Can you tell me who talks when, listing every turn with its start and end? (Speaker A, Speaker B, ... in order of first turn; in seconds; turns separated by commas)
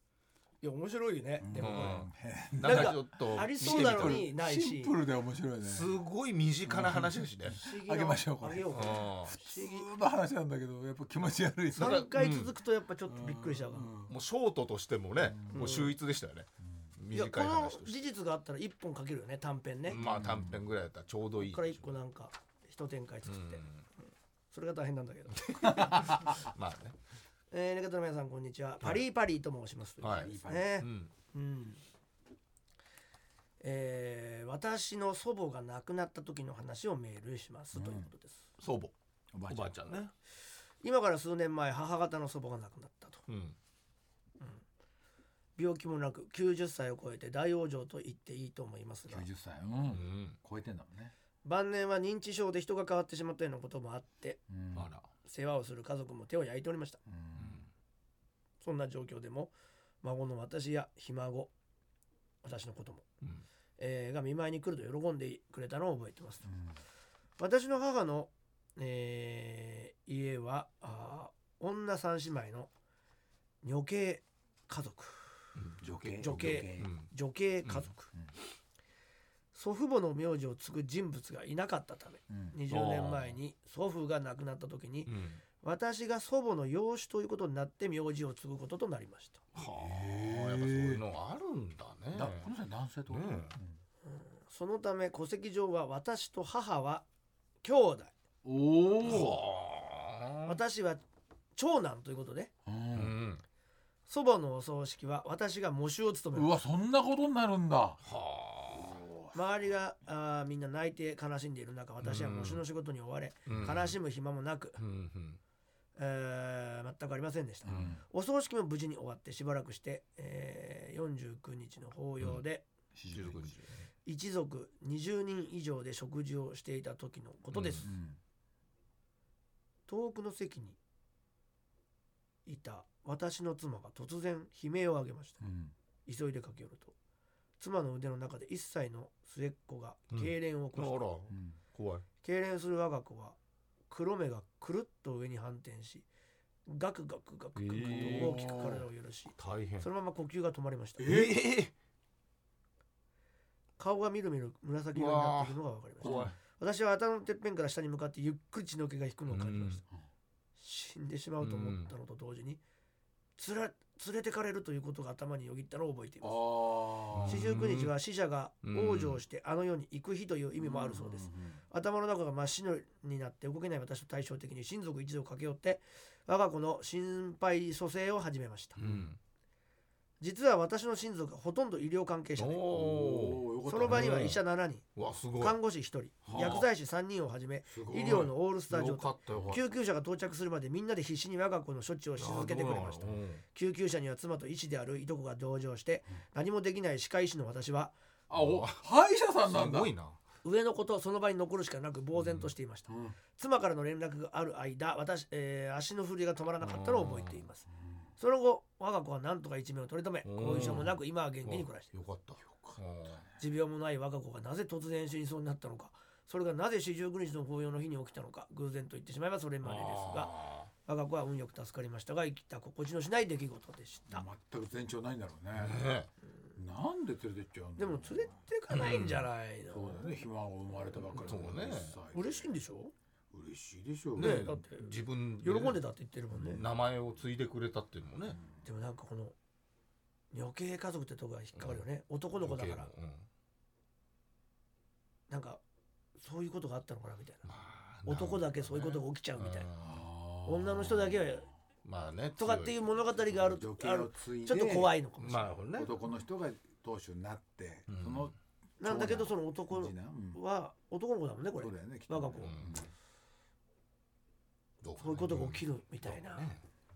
Speaker A: 0.6-2.0, Speaker B: 1.4-5.9, Speaker C: 1.5-4.2, Speaker A: 2.6-4.9, Speaker C: 5.6-7.6, Speaker B: 6.7-12.1, Speaker A: 7.5-9.9, Speaker C: 8.7-9.3, Speaker A: 11.7-13.9, Speaker C: 11.8-12.5, Speaker B: 13.1-14.1, Speaker C: 14.1-18.0, Speaker B: 15.2-15.8, Speaker A: 15.5-15.9, Speaker A: 17.1-20.0, Speaker C: 19.9-21.9, Speaker B: 19.9-20.6, Speaker A: 21.4-23.6, Speaker C: 23.2-23.8, Speaker A: 24.5-25.4, Speaker C: 25.3-26.9, Speaker A: 27.5-31.8, Speaker C: 30.0-31.1, Speaker B: 30.1-30.7, Speaker A: 33.6-38.4, Speaker B: 37.7-38.1, Speaker C: 38.6-38.9, Speaker B: 39.3-39.8, Speaker C: 39.5-40.1, Speaker A: 40.8-43.2, Speaker C: 43.3-43.5, Speaker A: 45.5-49.3, Speaker B: 49.1-51.1, Speaker C: 49.9-50.4, Speaker A: 51.4-54.4, Speaker B: 54.5-54.9, Speaker C: 54.7-55.1, Speaker A: 55.2-57.0, Speaker B: 57.0-57.6, Speaker C: 57.4-57.7, Speaker A: 58.6-61.5, Speaker A: 62.4-63.0, Speaker A: 63.8-66.5, Speaker B: 66.4-66.8, Speaker A: 67.4-72.7, Speaker A: 73.6-75.5, Speaker C: 75.5-77.1, Speaker B: 75.8-76.9, Speaker A: 76.2-78.1, Speaker A: 79.5-89.4, Speaker B: 82.3-82.5, Speaker C: 82.7-83.3, Speaker C: 85.0-85.4, Speaker C: 89.5-92.5, Speaker B: 89.7-91.0, Speaker B: 92.1-93.8, Speaker C: 93.1-93.5, Speaker A: 94.0-97.0, Speaker A: 97.6-98.1, Speaker B: 98.4-99.4, Speaker C: 99.0-100.6, Speaker A: 100.5-101.0, Speaker A: 101.5-102.5, Speaker B: 102.7-103.2, Speaker C: 102.9-103.4, Speaker A: 104.1-106.5, Speaker B: 106.3-108.0, Speaker C: 108.0-109.0, Speaker B: 108.7-109.4, Speaker A: 109.3-114.8, Speaker C: 112.0-112.6, Speaker C: 113.5-114.0, Speaker C: 114.8-115.4, Speaker A: 116.0-122.6, Speaker B: 117.6-118.0, Speaker C: 117.7-117.9, Speaker B: 122.9-123.5, Speaker C: 123.1-123.8, Speaker A: 124.0-127.9, Speaker C: 127.5-127.9, Speaker B: 127.8-128.2, Speaker A: 129.9-130.8, Speaker A: 132.4-135.4, Speaker B: 135.4-135.7, Speaker A: 136.1-136.9, Speaker A: 137.6-141.1, Speaker C: 140.1-142.1, Speaker B: 141.3-141.6, Speaker A: 142.2-143.4, Speaker A: 143.9-146.1, Speaker A: 146.7-151.3, Speaker C: 147.6-148.5, Speaker B: 147.9-148.8, Speaker C: 149.4-149.9, Speaker C: 151.0-151.7, Speaker A: 153.8-159.8, Speaker C: 154.9-156.3, Speaker B: 156.0-156.3, Speaker C: 159.3-159.8, Speaker A: 160.6-162.6, Speaker C: 161.4-161.9, Speaker A: 163.4-166.6, Speaker B: 166.2-167.4, Speaker C: 167.1-167.9, Speaker A: 167.2-178.8, Speaker C: 168.6-169.2, Speaker B: 170.6-171.6, Speaker C: 178.8-179.2, Speaker B: 178.8-179.1, Speaker A: 180.2-182.6, Speaker C: 182.4-184.4, Speaker B: 182.7-184.4, Speaker A: 183.7-184.8, Speaker C: 184.9-185.6, Speaker A: 185.4-197.9, Speaker C: 186.2-186.7, Speaker B: 186.3-186.5, Speaker B: 187.7-188.3, Speaker C: 187.9-189.6, Speaker C: 192.2-193.4, Speaker B: 198.3-199.9, Speaker C: 198.3-198.8, Speaker C: 199.4-200.2, Speaker A: 200.4-207.7, Speaker C: 202.2-202.5, Speaker B: 202.9-203.2, Speaker C: 206.6-207.4, Speaker B: 207.8-208.1, Speaker A: 208.2-211.9, Speaker C: 210.2-210.9, Speaker C: 211.4-213.2, Speaker B: 212.4-213.3, Speaker A: 213.4-220.3, Speaker C: 219.6-220.7, Speaker A: 220.8-224.3, Speaker B: 224.1-225.8, Speaker C: 225.6-226.1, Speaker B: 226.6-228.3, Speaker A: 227.8-230.1, Speaker C: 228.7-229.3, Speaker B: 229.7-232.5, Speaker C: 231.1-232.0, Speaker A: 232.1-232.9, Speaker B: 233.3-234.6, Speaker C: 234.2-235.8, Speaker A: 234.2-236.6, Speaker C: 236.4-238.4, Speaker A: 238.6-239.3, Speaker A: 240.3-242.9, Speaker C: 241.5-241.8, Speaker C: 242.4-243.2, Speaker A: 245.3-245.6, Speaker A: 246.2-247.5, Speaker C: 247.4-250.1, Speaker A: 248.1-249.7, Speaker B: 249.8-251.4, Speaker A: 250.4-251.5, Speaker C: 251.8-252.8, Speaker A: 252.4-255.6, Speaker B: 253.3-254.9, Speaker C: 255.2-256.0, Speaker B: 255.7-260.4, Speaker C: 257.9-258.3, Speaker A: 258.8-262.5, Speaker B: 261.6-262.9, Speaker C: 262.4-262.8, Speaker C: 264.8-266.6, Speaker A: 265.0-266.5